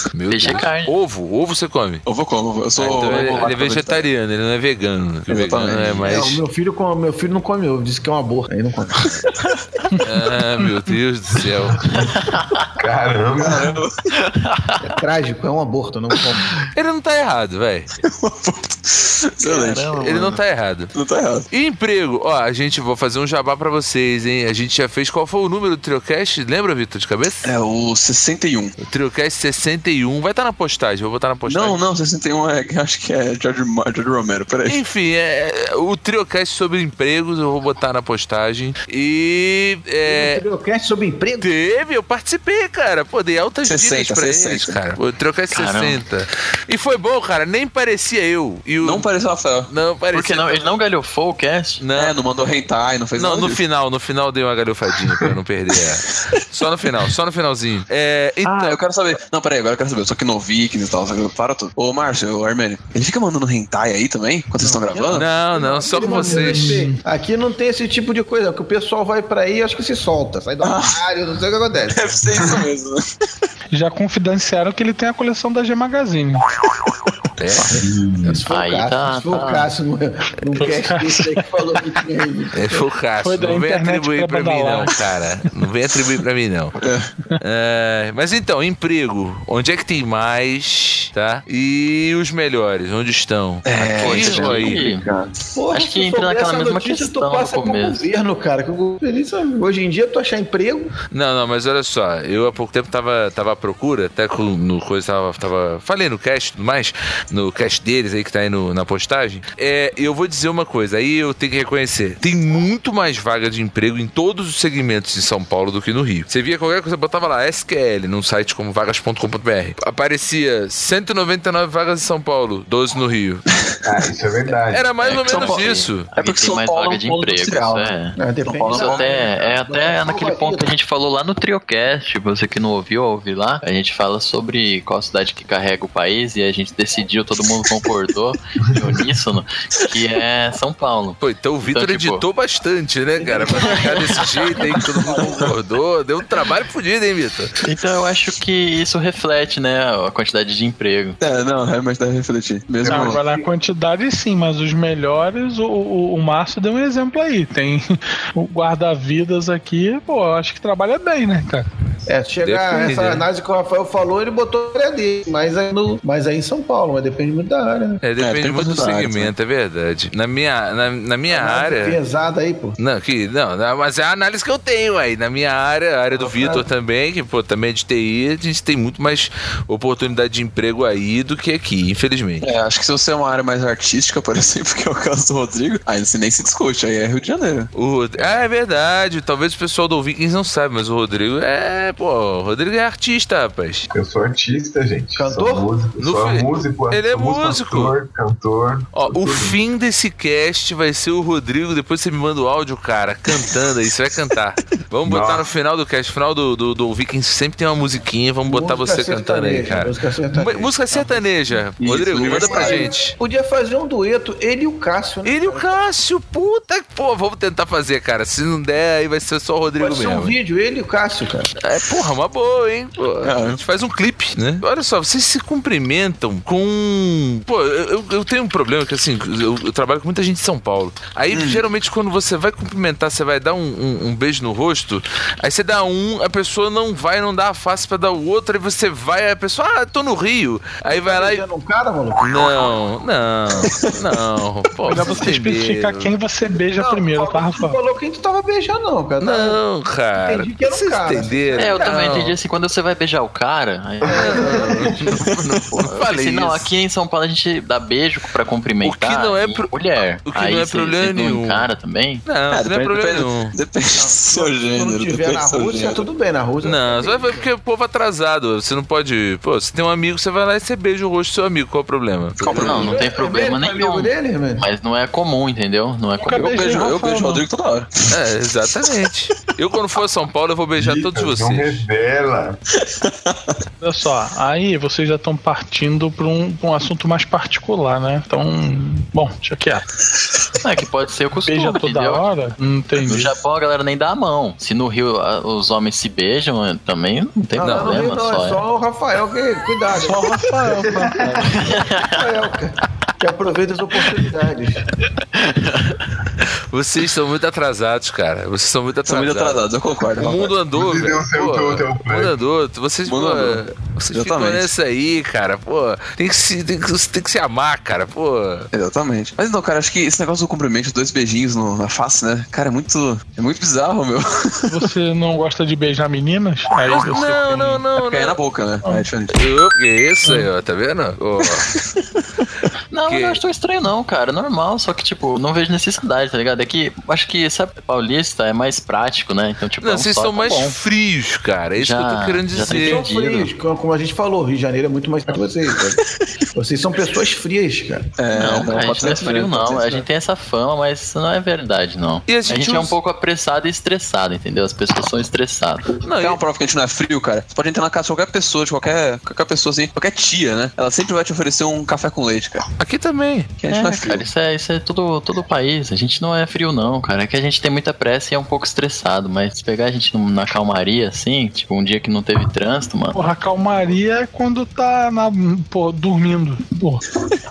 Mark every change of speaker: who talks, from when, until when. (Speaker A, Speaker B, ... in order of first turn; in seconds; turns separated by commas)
Speaker A: 0.1-2.0, Speaker B: 0.3-0.9, Speaker C: 2.1-4.0, Speaker A: 2.8-6.4, Speaker C: 5.3-6.1, Speaker D: 6.0-9.1, Speaker A: 10.0-12.0, Speaker E: 11.9-12.1, Speaker B: 12.0-12.6, Speaker E: 12.8-13.8, Speaker C: 13.4-14.0, Speaker B: 14.1-14.9, Speaker D: 14.8-16.5, Speaker A: 16.7-17.9, Speaker C: 18.0-20.3, Speaker B: 19.4-20.3, Speaker A: 19.9-20.9, Speaker C: 20.9-21.5, Speaker A: 21.5-27.5, Speaker C: 27.4-28.7, Speaker A: 28.8-31.8, Speaker C: 31.4-34.8, Speaker A: 34.7-40.4, Speaker D: 40.0-41.5, Speaker A: 41.4-49.1, Speaker C: 43.6-44.8, Speaker B: 45.5-46.0, Speaker C: 48.8-49.7, Speaker A: 49.7-50.7, Speaker B: 50.1-51.8, Speaker A: 51.8-52.2, Speaker C: 52.0-53.6, Speaker A: 53.1-58.8, Speaker C: 56.1-56.4, Speaker C: 58.4-65.3, Speaker D: 64.6-72.2, Speaker A: 65.1-66.8, Speaker F: 66.0-67.0, Speaker C: 70.6-71.0, Speaker C: 71.9-73.1, Speaker E: 72.4-72.6, Speaker F: 73.7-76.4, Speaker A: 77.4-77.8, Speaker D: 77.6-82.8, Speaker E: 77.7-78.4, Speaker B: 78.5-79.7, Speaker F: 80.6-81.6, Speaker A: 82.5-86.8, Speaker F: 83.2-85.0, Speaker C: 86.8-87.1, Speaker A: 87.4-94.9, Speaker C: 93.6-95.3, Speaker B: 94.0-95.1, Speaker D: 95.5-100.9, Speaker B: 95.7-98.0, Speaker A: 101.1-123.5, Speaker E: 123.8-124.9, Speaker A: 124.7-126.1, Speaker B: 125.0-128.2, Speaker C: 125.3-125.6, Speaker C: 126.1-129.2, Speaker D: 128.2-130.7, Speaker B: 128.7-142.2, Speaker A: 141.2-147.6, Speaker D: 143.2-145.5, Speaker B: 143.5-144.2, Speaker B: 147.6-151.2, Speaker C: 151.2-153.2, Speaker E: 152.9-153.5, Speaker F: 152.9-161.7, Speaker D: 162.1-168.0, Speaker A: 162.4-163.3, Speaker A: 168.0-172.0, Speaker C: 168.2-169.2, Speaker B: 168.7-169.2, Speaker D: 171.3-172.8, Speaker A: 172.8-182.5, Speaker D: 176.1-176.7, Speaker C: 182.4-188.3, Speaker A: 187.7-193.9, Speaker E: 193.9-199.6, Speaker D: 195.2-195.7, Speaker A: 196.0-198.0, Speaker A: 198.9-213.1, Speaker E: 205.1-205.5, Speaker D: 208.4-211.2, Speaker C: 211.8-212.8, Speaker E: 212.2-212.9, Speaker D: 212.3-215.7, Speaker A: 215.2-220.4, Speaker D: 219.8-221.5, Speaker A: 221.6-241.4, Speaker C: 223.2-223.6, Speaker C: 231.3-231.6, Speaker D: 240.9-242.8, Speaker A: 242.2-246.1, Speaker C: 243.6-243.9, Speaker F: 244.8-247.8, Speaker D: 246.8-249.6, Speaker A: 249.2-252.4, Speaker D: 250.2-252.0, Speaker B: 251.6-254.8, Speaker E: 254.0-255.0, Speaker A: 254.1-256.7, Speaker B: 255.8-262.2, Speaker A: 258.8-259.7, Speaker A: 260.3-261.7, Speaker A: 262.3-263.6, Speaker C: 262.5-266.0, Speaker D: 263.9-267.5, Speaker A: 266.6-272.9, Speaker C: 272.4-273.0, Speaker B: 272.4-276.7, Speaker D: 272.5-274.7, Speaker F: 276.2-277.4, Speaker C: 276.3-278.1, Speaker A: 278.1-281.9, Speaker E: 280.8-282.6, Speaker C: 282.9-283.6, Speaker F: 283.8-289.9, Speaker B: 290.6-292.2, Speaker F: 291.4-293.4, Speaker B: 293.0-298.6, Speaker D: 297.6-300.5, Speaker A: 297.6-298.1, Speaker F: 299.9-301.4, Speaker E: 300.8-301.4, Speaker B: 301.4-302.2, Speaker D: 301.7-304.9, Speaker B: 305.2-306.1, Speaker A: 306.7-318.7, Speaker C: 309.1-310.5, Speaker E: 310.7-312.4, Speaker C: 313.1-314.7, Speaker C: 318.7-324.9, Speaker F: 324.7-327.9, Speaker A: 326.8-328.4, Speaker C: 328.0-329.5, Speaker A: 329.3-331.7, Speaker C: 331.4-332.5, Speaker B: 332.9-340.8, Speaker A: 333.1-333.4, Speaker A: 339.8-343.0, Speaker B: 341.8-343.5, Speaker D: 342.7-346.0, Speaker D: 346.5-348.1, Speaker C: 348.2-350.1, Speaker B: 348.3-355.9, Speaker A: 352.3-353.0, Speaker C: 356.0-362.7, Speaker A: 356.0-356.4, Speaker A: 362.8-363.5, Speaker C: 363.6-364.3, Speaker B: 363.7-373.2, Speaker F: 373.1-377.0